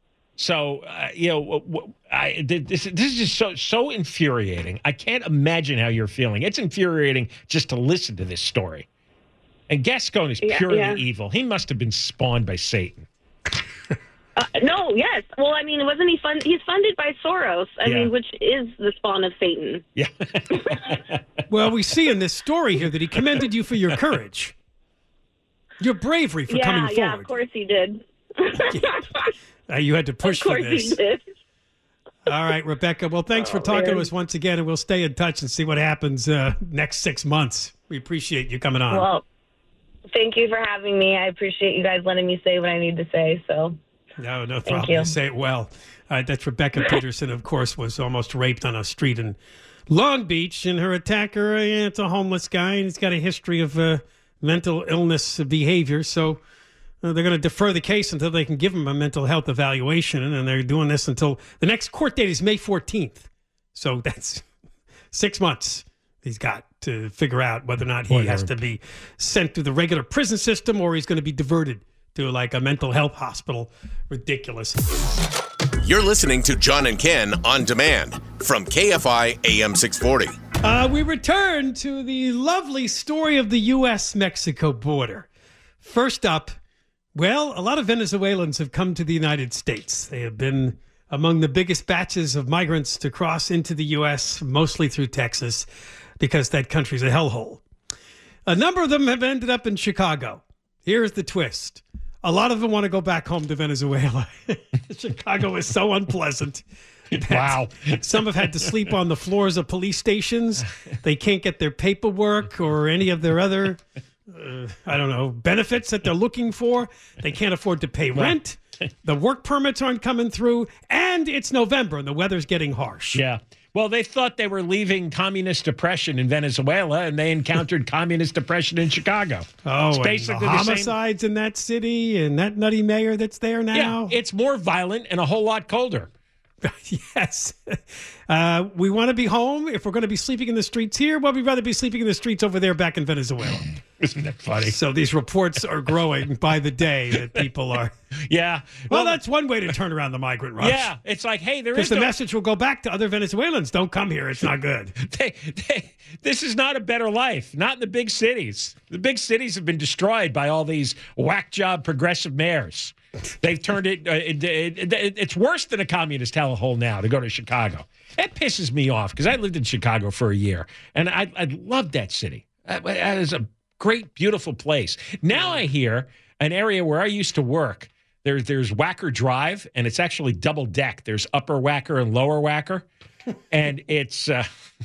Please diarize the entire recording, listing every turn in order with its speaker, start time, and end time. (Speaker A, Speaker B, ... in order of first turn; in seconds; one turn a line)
Speaker A: 0.4-8.9
Speaker A: 9.7-13.1
Speaker B: 10.4-11.0
Speaker B: 14.4-19.8
Speaker A: 17.9-18.1
Speaker A: 20.0-21.0
Speaker B: 20.5-20.8
Speaker C: 21.5-24.6
Speaker C: 25.8-27.3
Speaker B: 26.5-29.3
Speaker C: 28.6-29.0
Speaker C: 29.7-31.0
Speaker B: 30.2-31.2
Speaker C: 32.3-39.1
Speaker B: 33.4-34.1
Speaker B: 38.9-39.2
Speaker B: 40.1-43.8
Speaker C: 44.2-49.4
Speaker B: 44.7-45.1
Speaker C: 49.9-56.4
Speaker C: 57.0-64.5
Speaker C: 65.1-74.8
Speaker A: 68.1-68.5
Speaker D: 75.8-80.3
Speaker C: 80.6-85.3
Speaker C: 85.8-86.5
Speaker C: 87.2-95.7
Speaker C: 96.2-97.6
Speaker C: 98.5-123.2
Speaker A: 107.3-108.6
Speaker A: 123.1-130.9
Speaker C: 129.7-134.1
Speaker A: 133.7-136.1
Speaker C: 136.6-143.7
Speaker A: 144.0-144.8
Speaker C: 144.7-147.9
Speaker A: 148.3-149.2
Speaker C: 148.9-150.9
Speaker A: 150.6-152.1
Speaker C: 151.8-155.0
Speaker A: 155.0-182.9
Speaker C: 175.3-175.6
Speaker A: 183.5-184.5